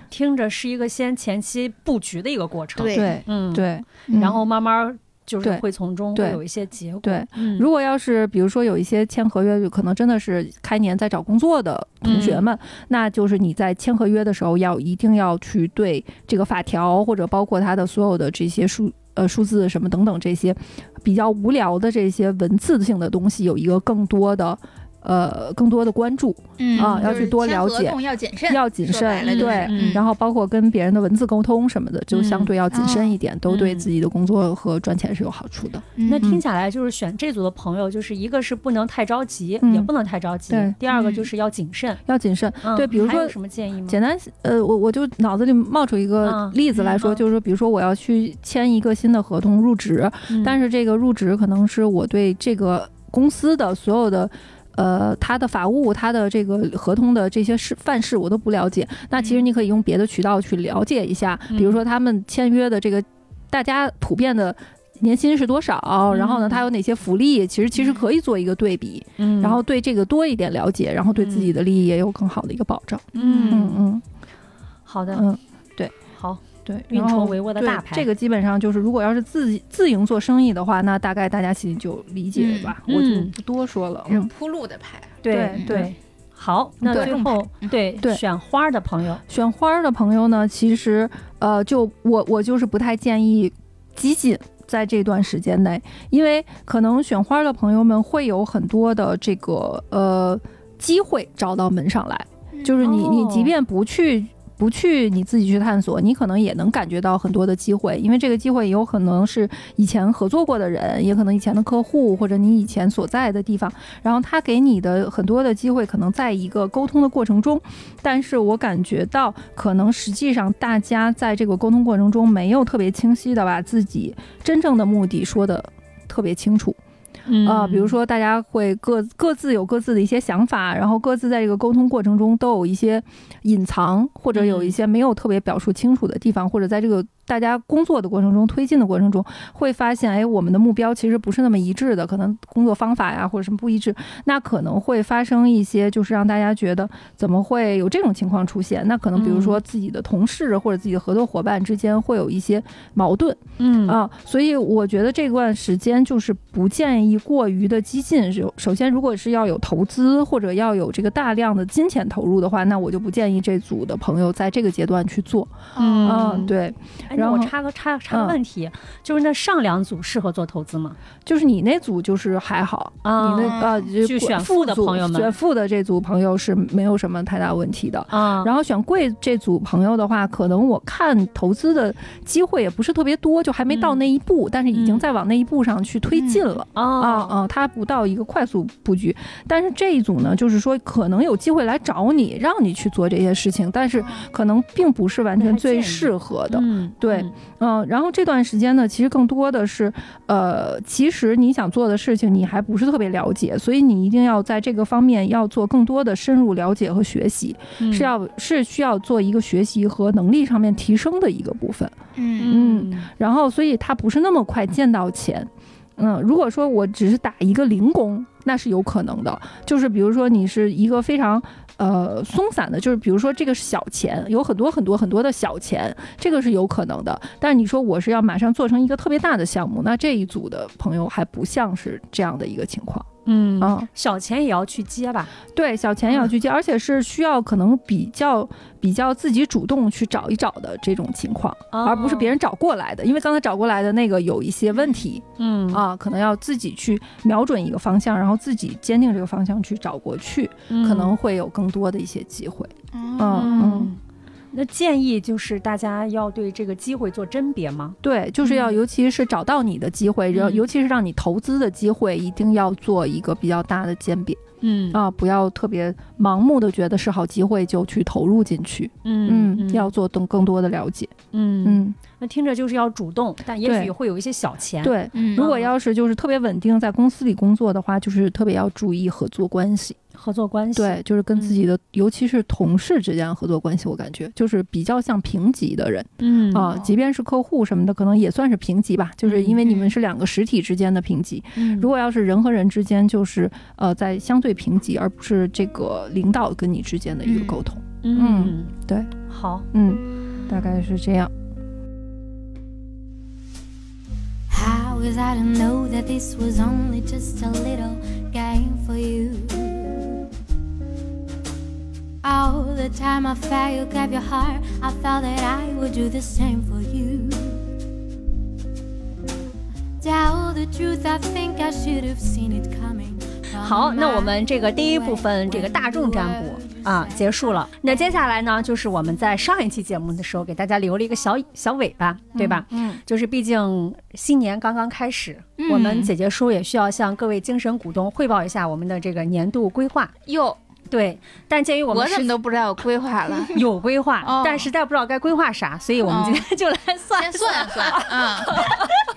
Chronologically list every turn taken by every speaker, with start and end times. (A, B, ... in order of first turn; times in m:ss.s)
0:00.1-0:07.7 A
0:02.8-0:03.2 B
0:02.9-0:04.4 C
0:05.4-0:06.4 C
0:07.0-0:36.4 C
0:12.0-0:12.5 A
0:26.6-0:30.0 B
0:26.8-0:27.2 A
0:29.2-0:30.0 A
0:32.1-0:32.5 A
0:32.7-0:33.2 B
0:33.5-0:33.9 A
0:36.0-0:36.3 B
0:36.0-0:42.0 A
0:39.6-0:39.9 C
0:40.5-0:40.8 C
0:40.9-0:41.3 B
0:42.0-1:14.0 C
0:42.6-0:44.0 A
0:46.2-0:47.2 A
0:50.3-0:50.6 A
0:59.2-0:59.4 B
1:01.5-1:01.8 A
1:06.1-1:06.6 A
1:07.7-1:08.0 B
1:09.2-1:09.6 A
1:11.2-1:11.6 A
1:13.1-1:13.6 B
1:13.1-1:13.8 A
1:14.8-1:15.2 A
1:15.1-1:15.9 C
1:16.1-1:18.1 A
1:16.6-1:24.3 C
1:22.3-1:22.8 B
1:22.9-1:23.3 A
1:24.1-1:25.8 B
1:25.2-1:29.2 A
1:25.3-1:25.9 C
1:26.8-1:27.3 C
1:26.9-1:27.8 B
1:29.3-2:06.8 C
1:42.8-1:43.5 A
2:07.3-2:07.9 A
2:07.4-2:47.5 C
2:14.3-2:14.7 A
2:29.1-2:29.6 A
2:33.6-2:34.0 A
2:45.7-2:46.3 B
2:45.8-2:46.5 A
2:47.1-2:51.0 A
2:48.1-2:48.4 C
2:51.2-3:31.9 C
2:53.0-2:55.3 A
2:53.4-2:53.9 B
2:58.1-2:58.5 A
3:03.7-3:04.0 A
3:04.7-3:05.0 A
3:06.1-3:06.6 B
3:06.8-3:07.3 A
3:14.0-3:14.2 B
3:15.4-3:17.3 A
3:27.8-3:28.1 A
3:32.2-3:32.7 B
3:32.4-3:33.1 A
3:32.5-3:53.1 C
3:53.2-3:55.3 A
3:53.6-3:53.9 C
3:55.5-4:13.9 C
4:01.7-4:02.3 A
4:04.7-4:05.0 B
4:05.4-4:05.8 A
4:10.7-4:11.1 A
4:12.9-4:13.7 B
4:13.3-4:14.0 A
4:14.5-4:18.8 A
4:18.0-4:24.4 C
4:20.3-4:20.6 A
4:24.6-4:25.0 A
4:24.9-4:32.0 C
4:29.0-4:29.9 A
4:31.3-4:35.7 A
4:33.6-4:33.9 C
4:34.8-4:40.0 C
4:35.1-4:35.5 B
4:40.2-4:41.6 A
4:40.7-4:59.1 C
4:46.2-4:46.7 A
4:49.2-4:49.6 A
4:49.6-4:49.9 B
4:51.6-4:51.9 A
4:57.2-4:57.6 B
4:58.0-4:58.7 A
4:59.3-4:59.7 A
4:59.7-5:01.3 C
5:04.5-5:10.2 D
5:12.2-5:17.7 D
5:20.0-5:27.6 D
5:23.6-5:40.1 A
5:32.3-5:33.0 C
5:35.6-5:36.1 B
5:40.3-5:40.6 B
5:40.9-5:42.3 A
5:41.9-5:43.6 B
5:43.5-5:48.9 A
5:44.2-5:44.7 B
5:46.0-5:46.5 B
5:47.2-5:48.5 B